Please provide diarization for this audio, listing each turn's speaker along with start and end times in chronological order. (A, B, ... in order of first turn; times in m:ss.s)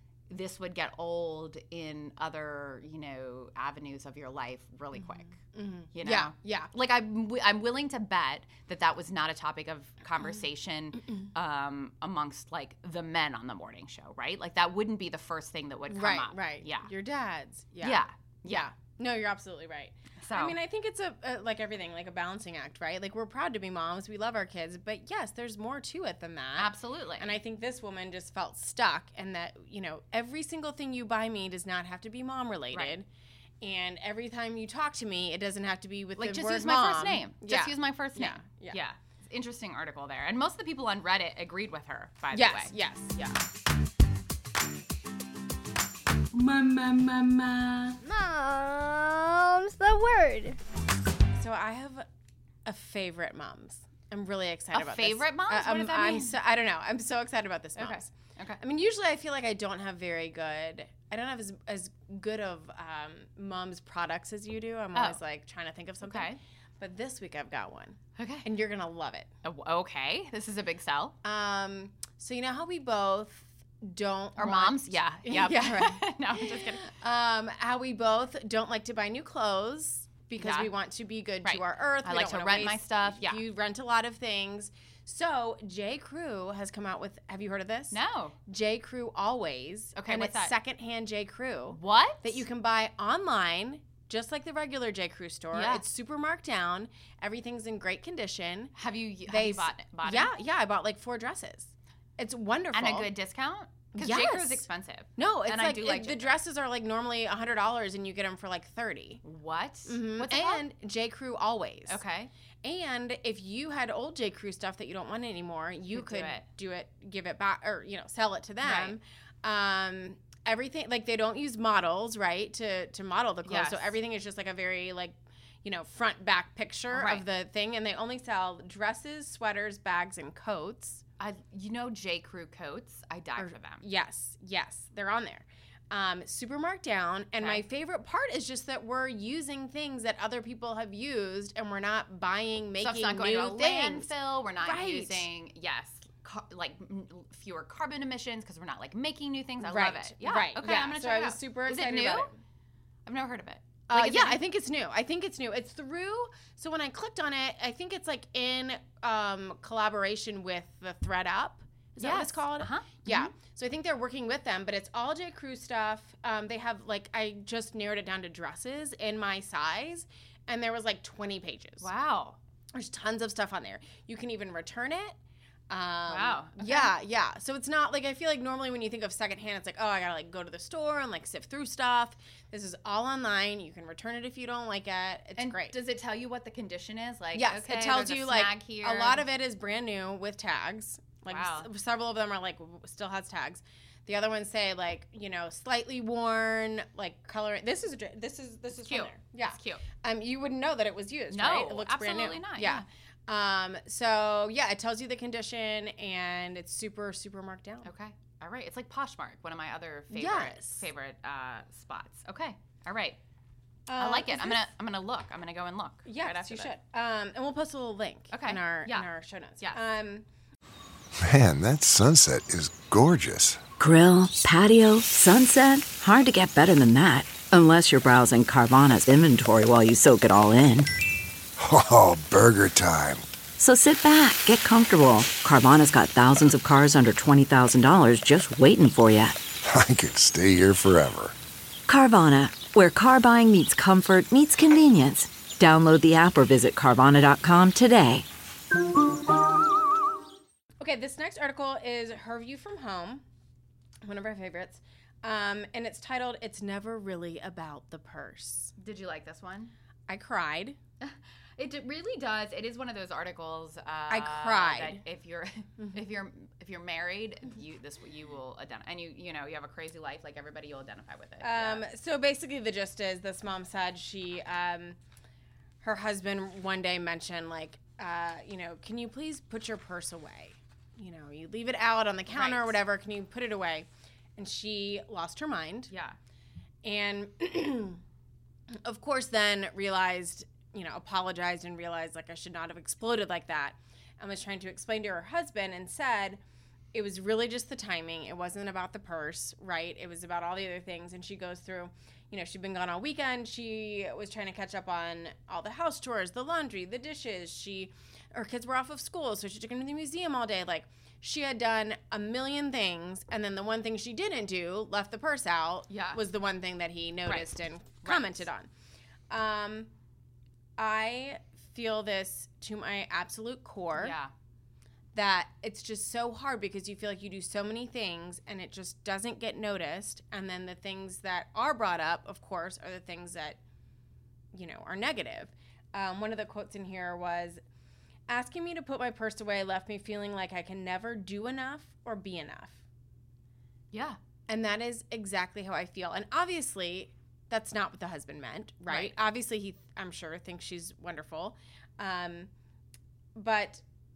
0:00.3-0:05.4 A
0:05.0-0:06.7 B
0:05.9-0:16.9 A
0:15.9-0:33.1 B
0:17.8-0:18.7 A
0:20.2-0:20.6 A
0:26.6-0:27.4 A
0:33.6-0:38.8 B
0:36.2-0:43.4 A
0:42.3-0:43.1 B
0:46.3-0:48.0 B
0:48.0-0:50.6 C
0:51.3-0:52.0 B
0:52.6-1:09.3 B
0:54.7-0:56.4 A
0:57.8-0:58.6 A
1:04.9-1:05.2 A
1:06.0-1:06.4 A
1:08.2-1:08.4 A
1:09.4-1:11.2 A
1:11.2-1:38.7 B
1:14.4-1:16.9 A
1:20.4-1:20.7 A
1:21.4-1:23.4 A
1:27.9-1:28.4 A
1:29.9-1:30.5 A
1:31.7-1:32.4 A
1:35.5-1:35.8 A
1:38.7-1:40.3 A
1:39.2-1:43.1 B
1:42.7-1:46.3 A
1:43.9-1:49.2 B
1:49.2-1:50.6 A
1:49.9-1:52.0 B
1:51.9-1:52.3 A
1:52.6-2:11.0 B
1:55.9-1:56.4 A
1:58.6-1:59.0 A
2:03.4-2:03.9 A
2:06.9-2:07.2 A
2:11.2-2:13.8 A
2:13.4-2:25.3 B
2:17.4-2:17.6 A
2:22.8-2:32.3 A
2:29.6-2:32.3 B
2:33.0-2:34.4 A
2:33.9-2:51.9 B
2:42.0-2:43.3 A
2:51.8-2:52.4 A
2:52.7-2:55.2 B
2:55.7-3:05.8 B
2:56.1-2:56.9 A
3:05.4-3:09.3 A
3:07.3-3:27.9 B
3:11.3-3:11.7 A
3:18.8-3:19.8 A
3:21.3-3:22.8 A
3:27.8-3:33.2 A
3:30.1-3:30.9 B
3:33.9-3:34.6 B
3:34.0-3:36.7 A
3:36.0-3:40.2 B
3:38.3-3:39.8 A
3:41.2-3:43.6 D
3:43.8-3:50.9 E
3:51.6-3:53.2 D
3:53.6-3:59.4 E
3:59.6-4:01.3 D
4:01.9-4:08.2 E
4:10.8-4:13.2 B
4:14.0-4:18.7 B
4:18.8-4:19.7 A
4:20.1-4:20.8 B
4:21.0-4:31.8 A
4:24.1-4:25.0 B
4:31.4-4:35.0 B
4:35.8-4:45.9 B
4:42.3-4:42.8 A
4:45.9-4:46.2 A
4:46.8-4:48.0 B
4:48.7-4:56.4 B
4:56.9-5:18.7 B
5:15.9-5:16.2 A
5:17.2-5:17.5 A
5:18.0-5:18.4 A
5:19.3-5:19.9 B
5:20.8-5:24.2 B
5:24.0-5:24.3 A
5:25.1-5:33.6 B
5:34.5-5:37.6 B
5:38.3-5:42.8 B
5:43.9-5:44.2 A
5:44.5-5:52.5 B
5:48.8-5:49.1 A
5:53.3-5:53.8 B